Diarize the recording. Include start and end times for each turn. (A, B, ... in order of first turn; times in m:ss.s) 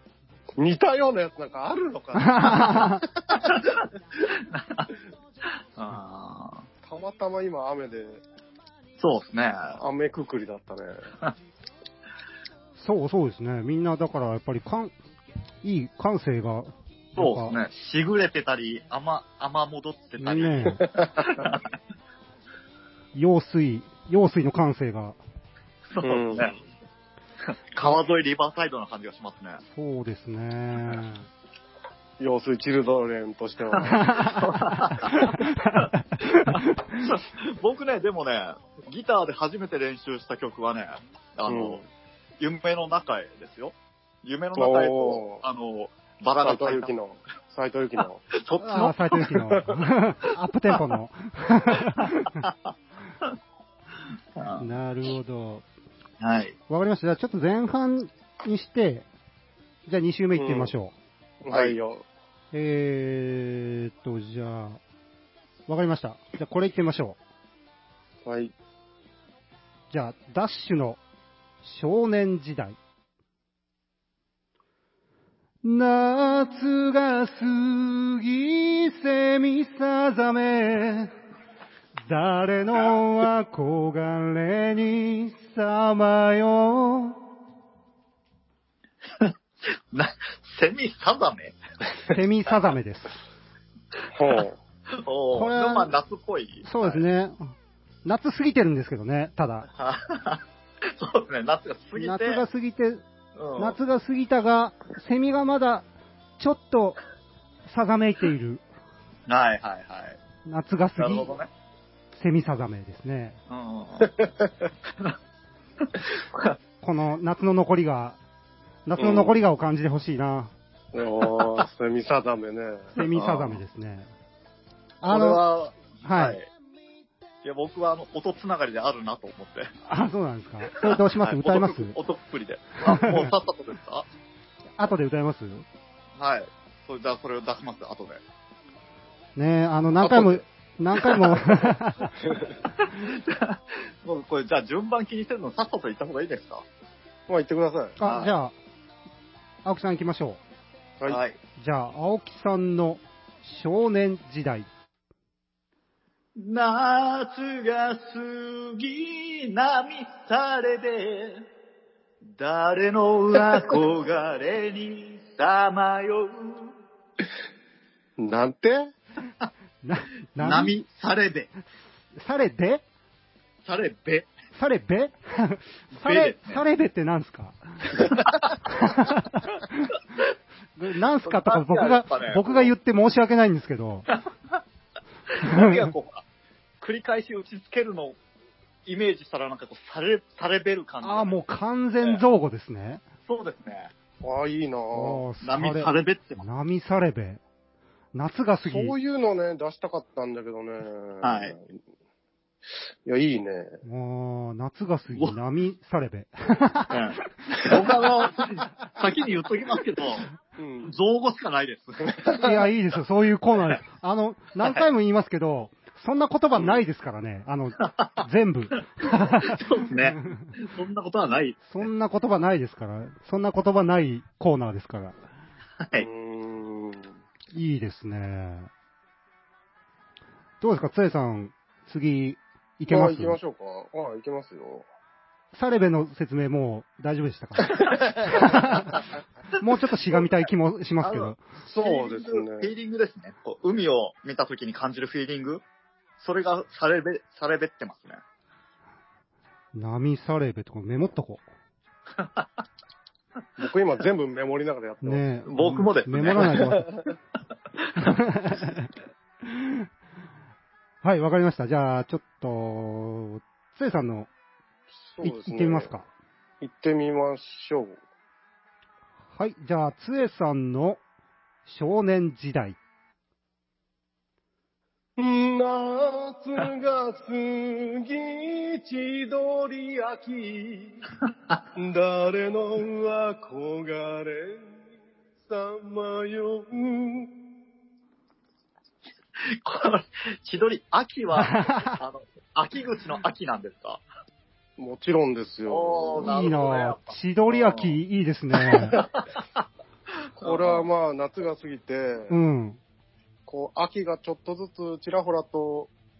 0:00.6-0:03.0 A
0:02.2-0:03.0 B
0:03.3-0:04.9 C
0:05.8-0:06.6 C
0:06.8-0:08.2 A
0:09.0-0:09.8 C
0:09.8-0:11.1 A
0:12.8-0:14.9 B
0:15.6-0:17.6 B
0:17.2-0:21.6 C
0:20.2-0:20.8 B
0:20.8-0:21.3 A
0:23.1-0:25.2 B
0:25.9-0:26.5 C
0:26.0-0:26.6 A
0:27.4-0:29.6 C
0:29.7-0:31.3 B
0:32.2-0:34.1 A
0:33.8-0:37.1 B
0:34.2-0:41.8 C
0:41.5-0:41.8 A
0:42.4-0:46.9 C
0:44.6-0:45.4 A
0:46.4-0:48.2 A
0:48.3-0:49.3 C
0:48.6-0:52.4 B
0:52.0-0:52.7 C
0:54.4-0:54.7 C
0:54.6-0:55.6 B
0:56.2-0:56.5 C
0:56.7-0:59.0 B
0:59.9-1:00.9 B
1:00.4-1:00.7 A
1:01.4-1:02.0 A
1:01.5-1:01.7 C
1:02.5-1:04.8 B
1:05.7-1:07.2 B
1:08.2-1:08.5 A
1:09.9-1:11.0 B
1:11.6-1:12.8 B
1:15.6-1:21.1 B
1:22.1-1:27.2 B
1:29.2-1:31.6 C
1:32.1-1:33.2 B
1:34.1-1:34.6 A
1:34.9-1:37.0 C
1:35.3-1:35.9 B
1:36.6-1:37.5 B
1:38.0-1:39.7 B
1:39.7-1:42.4 C
1:42.0-1:43.0 B
1:43.4-1:43.8 C
1:43.6-1:45.8 B
1:46.4-1:47.0 B
1:47.7-1:48.6 B
1:49.3-1:50.2 C
1:50.4-1:51.3 B
1:51.0-1:51.5 C
1:52.1-1:53.4 B
1:53.5-1:54.1 C
1:55.8-1:56.6 C
1:56.8-1:58.2 B
1:58.8-2:00.5 B
1:59.0-1:59.4 A
2:00.9-2:02.9 A
2:01.4-2:01.6 C
2:03.0-2:04.1 B
2:03.1-2:03.6 C
2:05.0-2:05.4 B
2:05.0-2:06.5 C
2:06.0-2:06.4 B
2:07.4-2:09.7 C
2:09.9-2:12.0 B
2:10.8-2:14.0 C
2:12.8-2:13.3 B
2:14.8-2:15.6 B
2:16.2-2:18.2 C
2:19.4-2:22.2 B
2:20.0-2:20.4 C
2:20.9-2:21.6 C
2:22.7-2:26.6 C
2:27.3-2:28.0 A
2:28.0-2:28.5 B
2:28.0-2:28.3 C
2:29.6-2:30.4 B
2:31.1-2:31.4 C
2:31.6-2:34.7 B
2:36.4-2:41.5 C
2:42.4-2:46.7 C
2:48.2-2:48.9 A
2:49.8-2:50.8 B
2:50.4-2:51.5 C
2:52.1-2:52.8 B
2:53.6-2:54.3 C
2:54.5-3:00.0 B
2:55.9-2:56.6 C
2:58.1-2:58.5 C
3:00.8-3:04.1 B
3:01.2-3:02.7 C
3:04.1-3:04.6 C
3:05.3-3:06.2 C
3:05.4-3:05.9 B
3:06.8-3:08.2 C
3:08.8-3:11.3 C
3:11.0-3:13.0 B
3:13.3-3:13.9 C
3:14.2-3:15.2 A
3:14.9-3:17.4 B
3:15.4-3:16.4 C
3:18.1-3:19.0 B
3:18.6-3:21.8 A
3:21.2-3:21.6 C
3:23.0-3:23.8 A
3:23.8-3:27.0 B
3:26.9-3:30.2 C
3:30.6-3:30.9 A
3:30.8-3:32.2 C
3:32.0-3:32.5 A
3:32.3-3:40.5 B
3:34.6-3:34.9 C
3:37.8-3:38.2 C
3:39.1-3:41.9 C
3:41.6-3:45.2 B
3:45.8-3:46.1 C
3:46.0-3:47.1 A
3:47.5-3:48.7 B
3:50.6-3:53.4 B
3:52.9-3:54.8 A
3:55.5-3:59.0 B
3:59.6-4:01.4 B
4:01.0-4:05.6 C
4:01.6-4:02.7 A
4:06.2-4:08.2 C
4:09.7-4:11.4 B
4:12.2-4:12.5 C
4:13.6-4:15.2 A
4:15.0-4:16.9 B
4:15.5-4:16.7 C
4:16.5-4:17.0 A
4:18.0-4:18.9 B
4:19.4-4:19.9 B
4:21.0-4:24.3 B
4:25.1-4:25.9 A
4:25.2-4:26.1 B
4:26.6-4:28.0 A
4:29.3-4:31.0 B
4:31.6-4:32.8 B
4:35.2-4:41.0 A
4:41.7-4:44.8 A
4:45.4-4:47.3 A
4:49.4-4:54.0 C
4:51.4-4:52.0 B
4:54.8-4:56.3 A
4:55.7-4:58.0 C
4:56.2-4:59.0 B
4:58.7-4:59.4 C
5:00.4-5:00.8 C
5:00.4-5:02.3 A
5:02.3-5:02.8 B
5:03.5-5:05.9 A